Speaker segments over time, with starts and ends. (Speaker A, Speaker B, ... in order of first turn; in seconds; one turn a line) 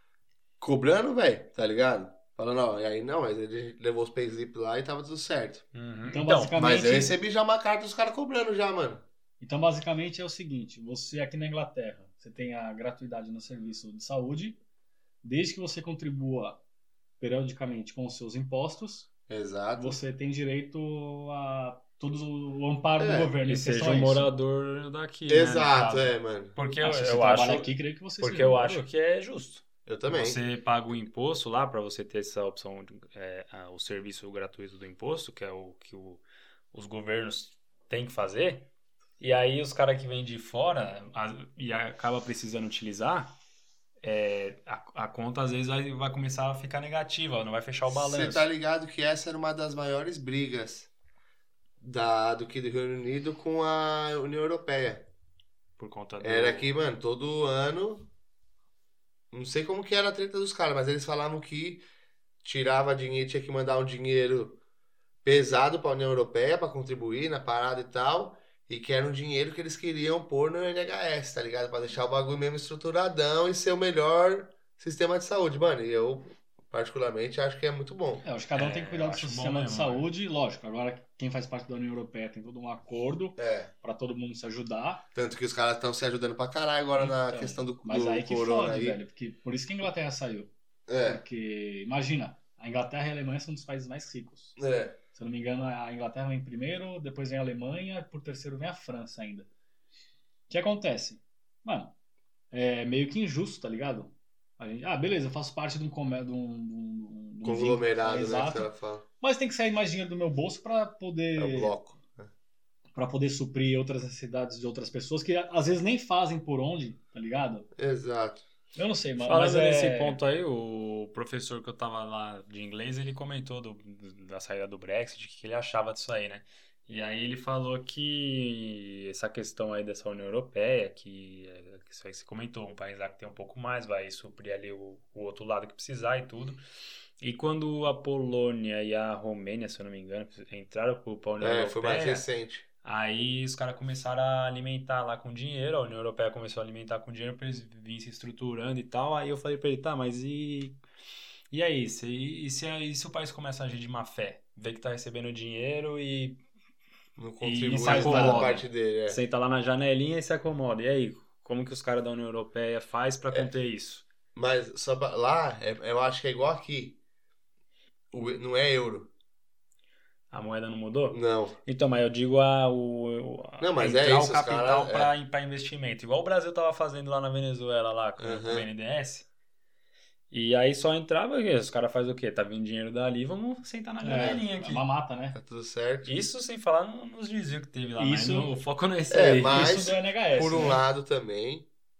Speaker A: 0.6-5.6
Speaker B: 5.7-6.5
Speaker C: 6.1-7.1
Speaker A: 6.5-9.0
Speaker C: 9.4-14.6
Speaker C: 15.2-16.6
Speaker C: 17.2-19.1
Speaker A: 19.3-20.0
Speaker C: 19.8-24.3
Speaker A: 23.0-23.3
Speaker B: 23.4-38.7
Speaker A: 25.3-26.6
Speaker C: 26.8-28.8
Speaker A: 29.9-30.4
Speaker B: 39.2-43.3
Speaker B: 44.0-48.5
Speaker A: 47.9-50.9
Speaker A: 51.8-55.1
Speaker B: 55.8-56.7
Speaker A: 56.2-58.1
Speaker A: 59.3-61.8
Speaker A: 62.4-64.6
Speaker A: 65.2-78.2
Speaker C: 78.2-85.0
Speaker B: 78.5-80.0
Speaker A: 83.4-83.7
Speaker A: 85.1-89.0
Speaker C: 86.9-94.6
Speaker A: 90.9-91.2
Speaker A: 94.6-95.0
Speaker C: 95.1-99.5
Speaker C: 100.5-101.9
Speaker C: 102.5-111.7
Speaker A: 107.4-109.0
Speaker A: 111.3-112.3
Speaker C: 112.9-117.7
Speaker A: 117.8-118.4
Speaker C: 118.7-120.2
Speaker B: 119.2-136.6
Speaker B: 137.2-142.2
Speaker A: 141.4-142.6
Speaker B: 142.8-150.8
Speaker B: 151.5-156.4
Speaker A: 157.2-159.2
Speaker B: 157.4-164.0
Speaker C: 157.8-158.6
Speaker A: 164.3-167.0
Speaker A: 168.1-169.1
Speaker B: 170.3-179.3
Speaker A: 171.1-171.6
Speaker A: 173.6-175.1
Speaker A: 178.2-178.7
Speaker B: 180.3-184.8
Speaker C: 184.0-185.4
Speaker A: 184.1-184.4
Speaker A: 185.3-186.2
Speaker B: 186.0-189.8
Speaker C: 188.0-188.5
Speaker A: 189.1-191.7
Speaker C: 189.5-190.8